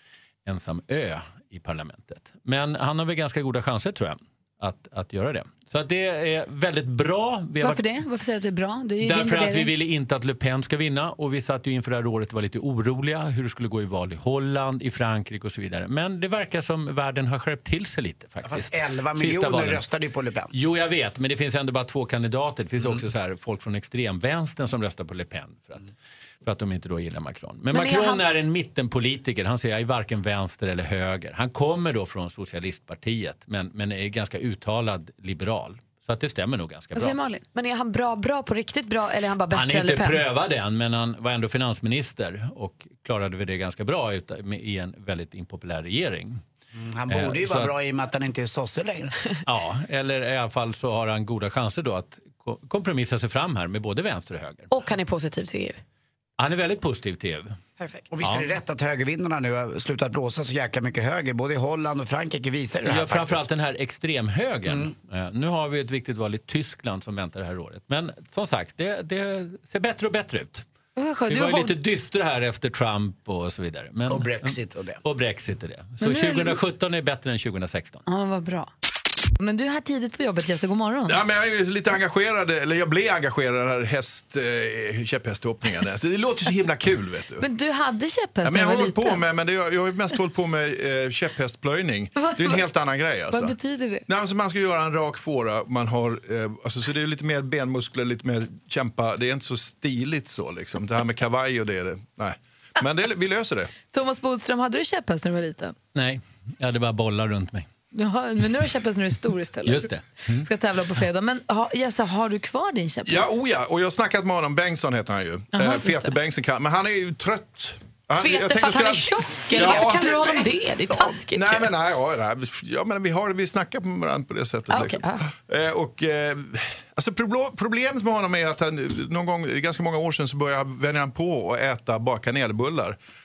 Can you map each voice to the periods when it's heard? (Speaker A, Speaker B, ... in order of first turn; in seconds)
Speaker A: 0.5-7.9, 9.0-19.8, 20.5-25.9, 26.4-37.2, 39.5-46.4, 47.1-47.7, 49.5-54.7, 56.4-57.5, 58.2-58.5, 62.9-70.6, 71.3-78.0, 105.9-107.7, 109.6-110.5
Speaker B: 7.6-9.7, 37.0-37.4, 71.0-71.7, 76.0-76.6, 78.1-78.7, 79.4-81.2, 87.4-89.2, 92.2-92.7, 93.3-94.1, 103.9-105.8, 107.9-113.3, 115.5-116.1
Speaker C: 18.4-20.5, 46.7-49.1, 58.1-63.5, 64.7-64.9, 74.1-75.0
Speaker D: 27.7-28.2, 37.5-40.3, 54.7-55.8, 57.8-58.1, 118.2-121.7, 124.7-125.3
Speaker E: 81.1-87.5, 88.4-93.6, 94.1-103.7, 113.1-133.0